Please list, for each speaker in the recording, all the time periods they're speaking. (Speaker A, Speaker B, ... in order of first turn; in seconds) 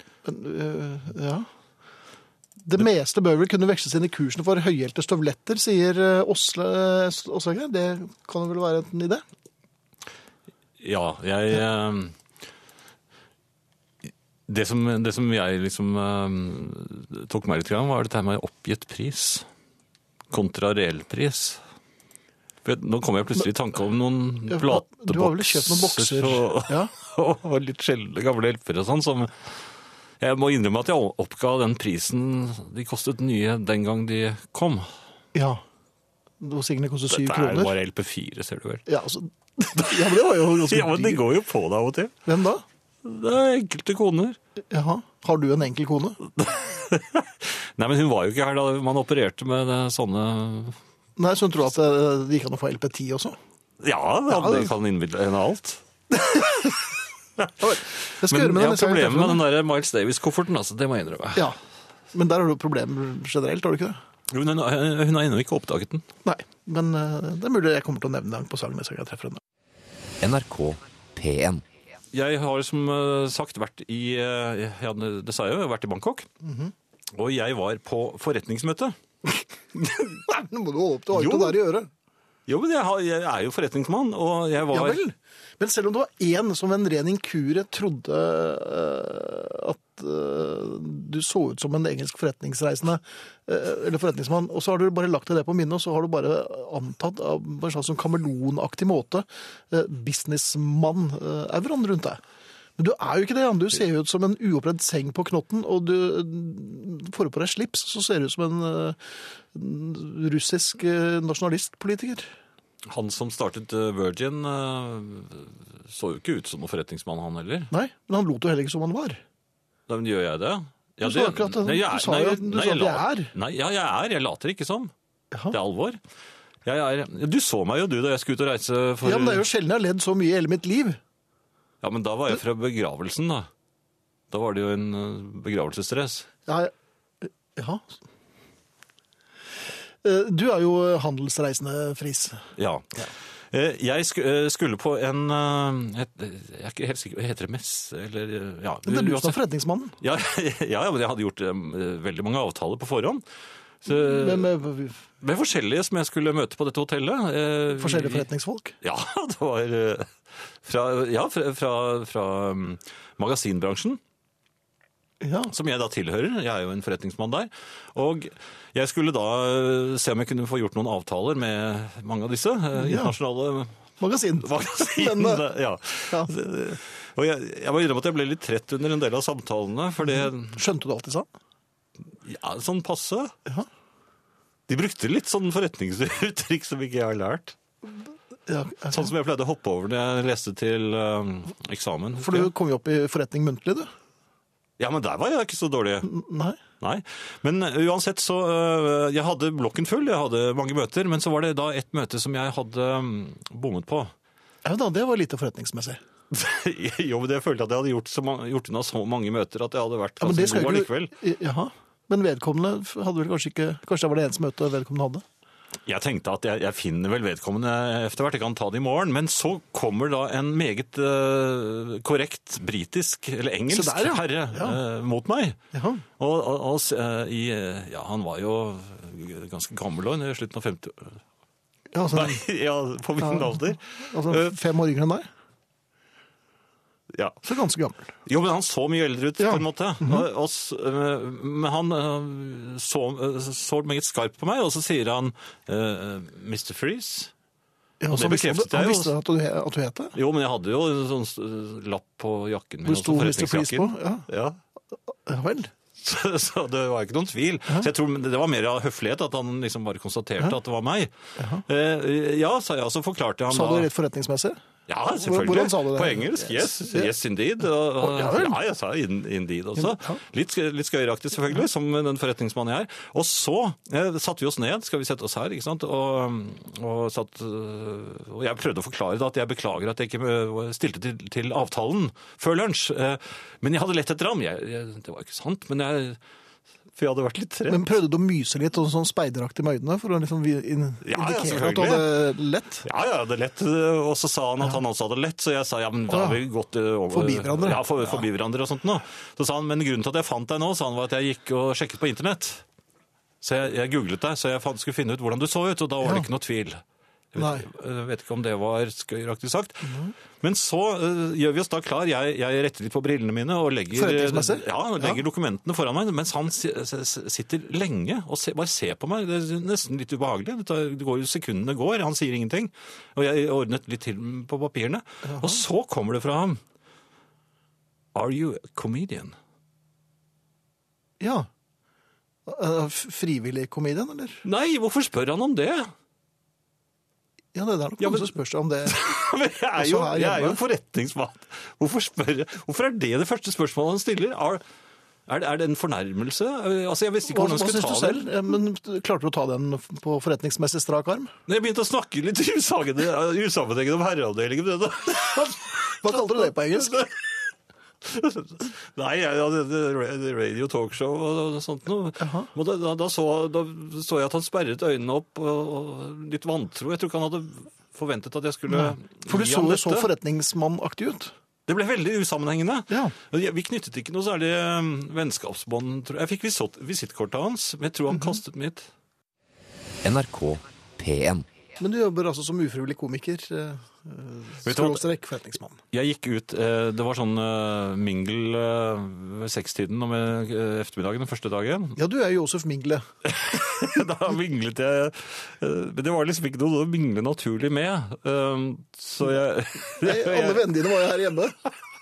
Speaker A: 0.2-1.5, 2.7-9.2, 24.5-26.9, 35.3-35.6, 36.4-37.8, 38.9-41.2, 42.3-42.6, 44.7-46.2, 51.2-53.4, 54.3-54.7, 57.6-59.4, 62.1-64.0, 66.2-69.4, 76.4-76.7, 79.8-81.9, 84.7-102.2, 102.8-109.0, 109.5-112.3, 117.7-119.2, 121.0-123.3, 129.0-131.0, 137.2-138.0, 140.0-142.4, 148.9-150.0, 153.9-155.0, 157.8-158.8, 165.2-165.5, 172.8-173.2, 174.0-175.5, 180.0-181.3, 188.5-189.1, 192.2-193.9, 196.0-196.6, 204.7-206.0, 210.2-215.2, 223.7-224.8, 225.7-226.1, 231.9-232.4, 233.2-235.2, 237.4-238.1, 239.4-240.3, 248.0-250.2, 252.8-254.3, 255.2-255.7, 261.4-261.6, 263.5-264.6, 265.1-267.1, 268.0-268.6, 269.8-270.2, 287.7-292.9, 296.1-296.4, 297.1-298.2, 306.0-306.3, 307.4-307.7, 309.9-310.1, 313.9-315.2, 325.2-325.6, 331.2-331.5, 332.5-334.4, 337.5-339.0, 339.8-340.6, 347.3-351.3, 356.0-357.0, 362.2-362.5, 368.7-371.3, 372.9-373.1, 378.1-378.4, 381.8-385.8, 392.0-393.0, 400.0-401.6
Speaker B: 10.8-12.1, 14.5-19.5, 20.3-21.6, 22.6-29.3, 30.2-34.9, 37.1-38.9, 39.8-40.1, 40.6-42.1, 43.0-44.4, 46.4-50.8, 53.8-56.8, 57.4-61.5, 64.3-66.1, 72.1-76.3, 77.2-79.0, 81.1-81.6, 82.5-85.0, 112.9-117.7, 119.9-124.9, 125.5-126.0, 126.7-129.5, 131.8-133.5, 134.3-136.3, 142.6-142.8, 143.5-149.4, 150.0-153.2, 153.8-154.5, 155.2-158.2, 158.8-160.1, 160.6-164.0, 165.5-173.8, 174.4-180.6, 182.2-183.3, 184.7-187.6, 188.9-192.5, 194.8-196.1, 196.8-204.1, 206.3-211.1, 215.9-225.6, 226.2-231.2, 232.1-234.5, 237.1-237.4, 238.3-247.3, 248.1-249.2, 250.2-254.6, 256.0-261.2, 261.7-263.9, 264.9-286.2, 286.9-287.9, 291.0-292.2, 292.8-302.6, 303.4-306.8, 307.3-326.6, 328.1-329.4, 334.4-335.9, 338.0-344.6, 345.3-348.3, 351.5-357.5, 358.0-370.1, 371.7-378.9, 384.6-385.1, 385.9-392.0, 393.3-400.9
Speaker C: 70.2-71.6, 380.0-381.5